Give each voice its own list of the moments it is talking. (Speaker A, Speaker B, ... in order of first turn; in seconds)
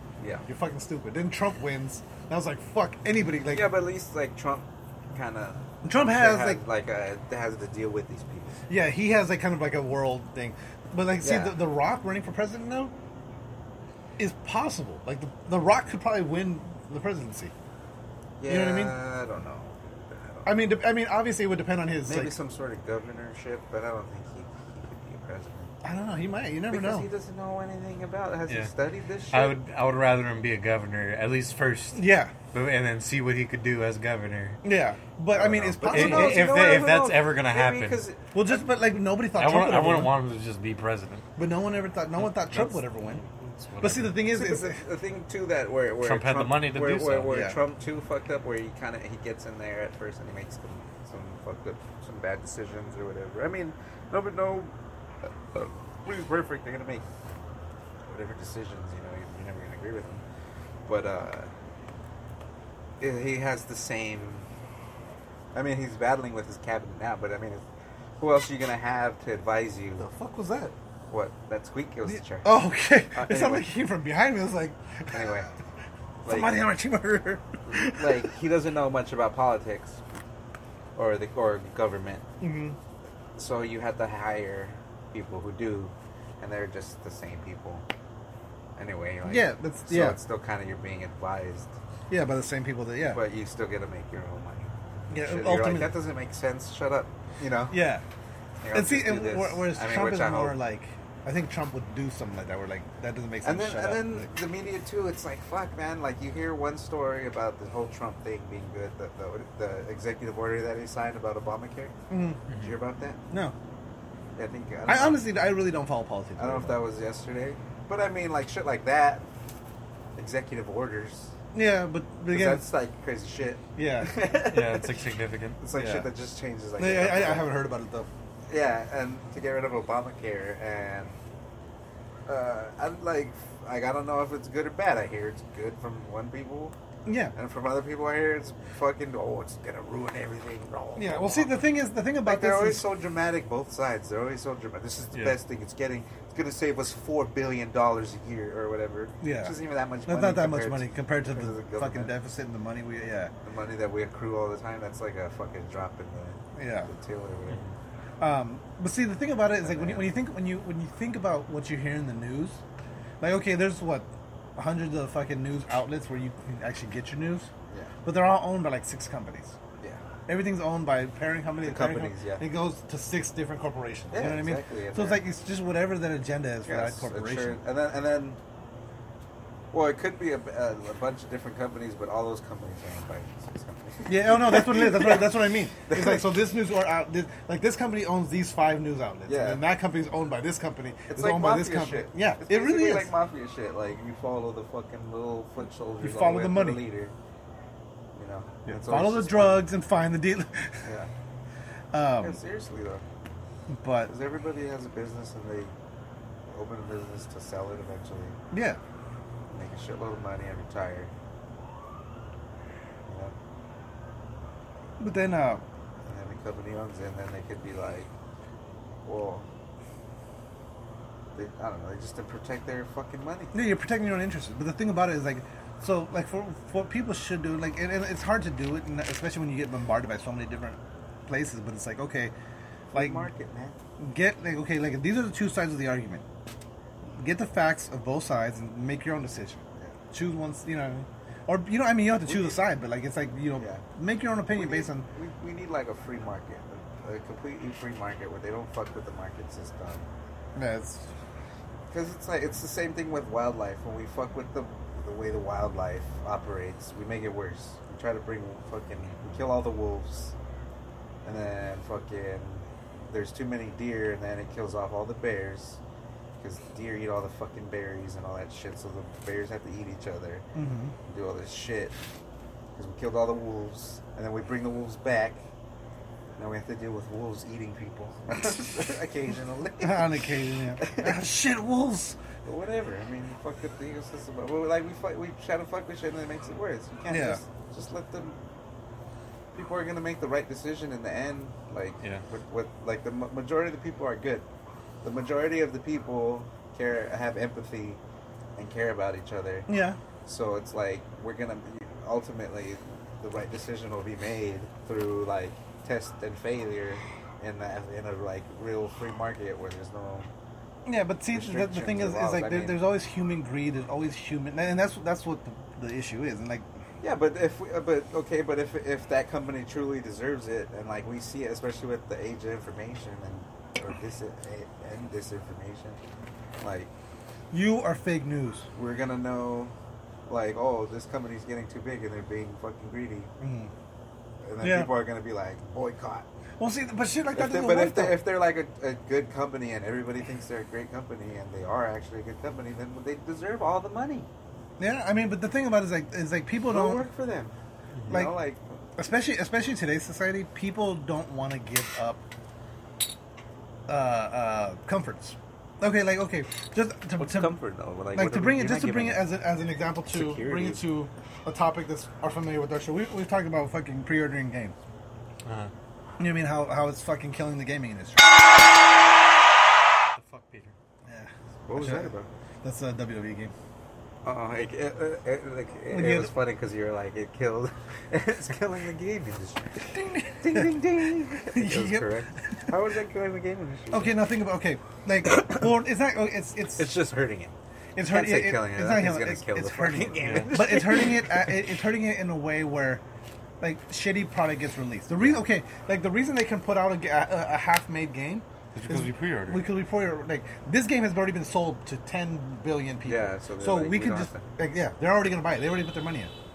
Speaker A: 0.2-0.4, 3.5-8.6, 11.2-11.6, 18.4-20.5, 22.1-25.8, 26.7-29.6, 35.3-38.6, 44.2-54.7, 55.5-57.0, 58.1-60.2, 60.9-61.5, 63.0-64.5, 65.5-67.6, 68.2-70.1, 71.1-73.7, 75.1-75.5, 76.2-76.6, 77.7-80.0, 80.9-82.2, 83.3-87.8, 88.8-91.7, 93.1-97.8, 98.6-100.6, 103.4-111.9, 112.6-113.2, 114.3-115.2, 116.4-119.2, 120.2-121.3, 122.3-125.1, 125.6-127.5, 128.5-131.2, 132.2-136.7, 137.3-141.6, 142.2-152.1, 153.4-157.6, 159.6-160.1, 171.6-172.4, 174.1-175.2, 176.6-178.4, 179.7-186.3, 189.3-189.6, 191.1-197.1, 198.1-199.7, 200.8-201.1, 202.2-203.0, 204.1-205.7, 206.5-208.4, 209.5-211.1, 213.1-213.3, 216.1-218.1, 219.0-219.5, 221.3-223.5, 232.9-233.8, 242.2-242.6, 243.6-243.8, 244.5-250.1, 251.9-260.3, 261.2-265.8, 266.4-270.4, 271.1-271.9, 272.8-275.4, 276.4-281.2, 282.4-288.4, 289.5-294.4, 295.0-298.0, 298.6-299.7, 300.2-310.3, 311.3-312.8, 317.0-326.0, 326.6-326.9, 328.7-329.7, 330.3-333.3, 334.4-336.3, 337.3-344.3, 346.7-347.5, 348.1-348.6, 357.2-359.3, 360.1-360.8, 371.6-372.3, 374.2-384.2, 385.3-385.6, 386.8-387.5, 388.1-391.5, 395.1-395.4, 403.1-404.4
Speaker B: 0.5-3.7, 5.8-6.6, 8.7-12.9, 14.2-17.5, 18.4-18.9, 20.4-22.3, 25.8-27.1, 31.9-32.3, 34.6-36.5, 38.3-40.1, 41.4-43.2, 43.8-44.8, 47.3-47.6, 70.0-70.7, 72.1-75.3, 76.2-78.3, 82.4-82.8, 89.2-90.2, 92.1-93.2, 95.1-95.9, 97.7-98.0, 98.7-104.3, 112.1-112.4, 113.3-113.5, 114.9-116.8, 121.5-122.6, 123.8-124.1, 125.7-126.1, 126.8-128.1, 137.1-137.3, 140.9-142.8, 149.2-149.6, 150.1-153.3, 156.6-156.9, 158.2-162.6, 163.2-167.5, 168.0-169.6, 170.3-177.6, 184.1-193.1, 196.0-196.8, 198.7-200.8, 201.9-202.4, 203.7-204.1, 208.5-208.8, 215.0-215.6, 223.5-232.3, 232.9-233.2, 234.0-236.2, 237.1-245.1, 250.5-251.1, 270.5-270.9, 279.8-282.2, 287.1-287.4, 299.7-300.0, 310.9-316.6, 327.5-328.7, 333.4-333.7, 334.6-334.9, 336.6-338.2, 344.8-347.1, 348.1-348.3, 349.0-352.2, 353.9-357.6, 358.1-364.8, 366.2-368.4, 371.1-372.1, 372.6-373.5, 375.9-376.3, 379.9-380.8, 381.4-382.6, 383.9-386.9, 387.9-393.0, 393.6-406.3
Speaker C: 29.3-34.6, 35.9-38.0, 39.4-41.3, 42.2-44.2, 46.0-47.4, 124.4-125.6, 347.9-348.2, 365.4-365.7, 370.1-370.8, 390.2-390.6, 398.7-399.6